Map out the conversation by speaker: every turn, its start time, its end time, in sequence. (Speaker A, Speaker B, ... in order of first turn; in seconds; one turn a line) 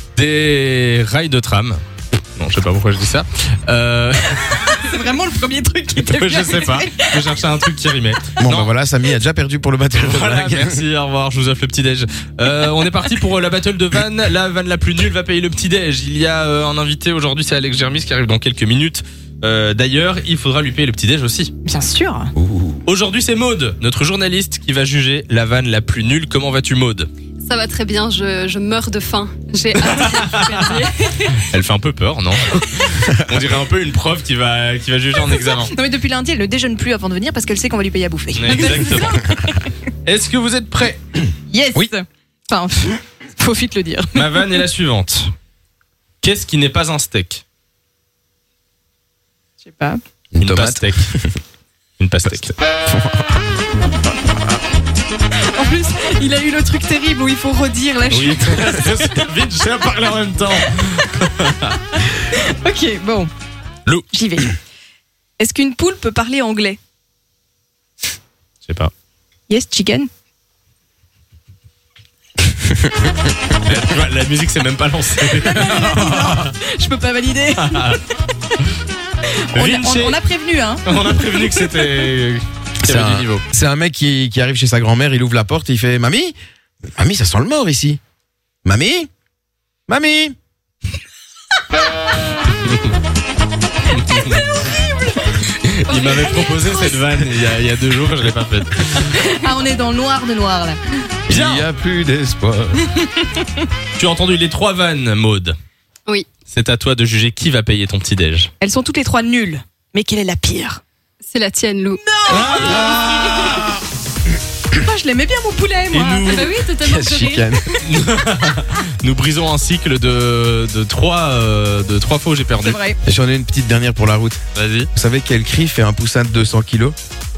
Speaker A: 0.2-1.8
Speaker A: 2.4-4.8
Speaker B: 4.5-7.3
Speaker A: 6.0-8.7
Speaker C: 8.4-10.8
Speaker A: 9.9-21.5
Speaker B: 21.6-22.3
Speaker C: 22.4-22.8
Speaker A: 22.9-27.1
Speaker D: 27.4-30.8
Speaker A: 29.8-30.8
Speaker B: 30.4-31.4
Speaker A: 31.4-35.7
Speaker B: 35.5-39.7
Speaker A: 38.4-39.2
Speaker A: 40.0-41.1
Speaker B: 41.5-44.6
Speaker A: 44.1-45.3
Speaker A: 46.2-47.4
Speaker B: 49.6-50.0
Speaker C: 50.3-51.4
Speaker A: 50.4-51.1
Speaker A: 52.0-52.6
Speaker C: 52.9-53.4
Speaker B: 55.5-59.2
Speaker A: 58.1-61.8
Speaker B: 62.1-63.3
Speaker B: 64.1-64.6
Speaker B: 65.4-66.8
Speaker A: 68.7-68.9
Speaker B: 69.5-70.1
Speaker A: 73.5-76.5
Speaker B: 75.5-78.0
Speaker A: 77.5-78.0
Speaker B: 79.5-81.0
Speaker A: 79.5-80.2
Speaker A: 80.8-83.4
Speaker C: 82.8-86.3
Speaker C: 87.0-88.0
Speaker C: 88.7-89.1
Speaker C: 89.9-90.3
Speaker A: 92.5-92.9
Speaker A: 93.8-94.6
Speaker A: 95.2-99.2
Speaker B: 95.9-96.9
Speaker B: 98.9-100.8
Speaker C: 101.3-102.9
Speaker A: 101.3-101.7
Speaker B: 103.1-103.5
Speaker A: 104.0-105.6
Speaker A: 106.5-108.5
Speaker B: 108.6-110.8
Speaker D: 111.2-112.0
Speaker B: 112.1-113.6
Speaker A: 112.3-113.6
Speaker C: 112.4-113.8
Speaker B: 114.7-117.7
Speaker A: 115.9-116.7
Speaker C: 116.7-117.7
Speaker A: 117.8-122.8
Speaker B: 122.6-123.0
Speaker C: 123.0-124.4
Speaker A: 124.5-124.9
Speaker C: 125.0-127.0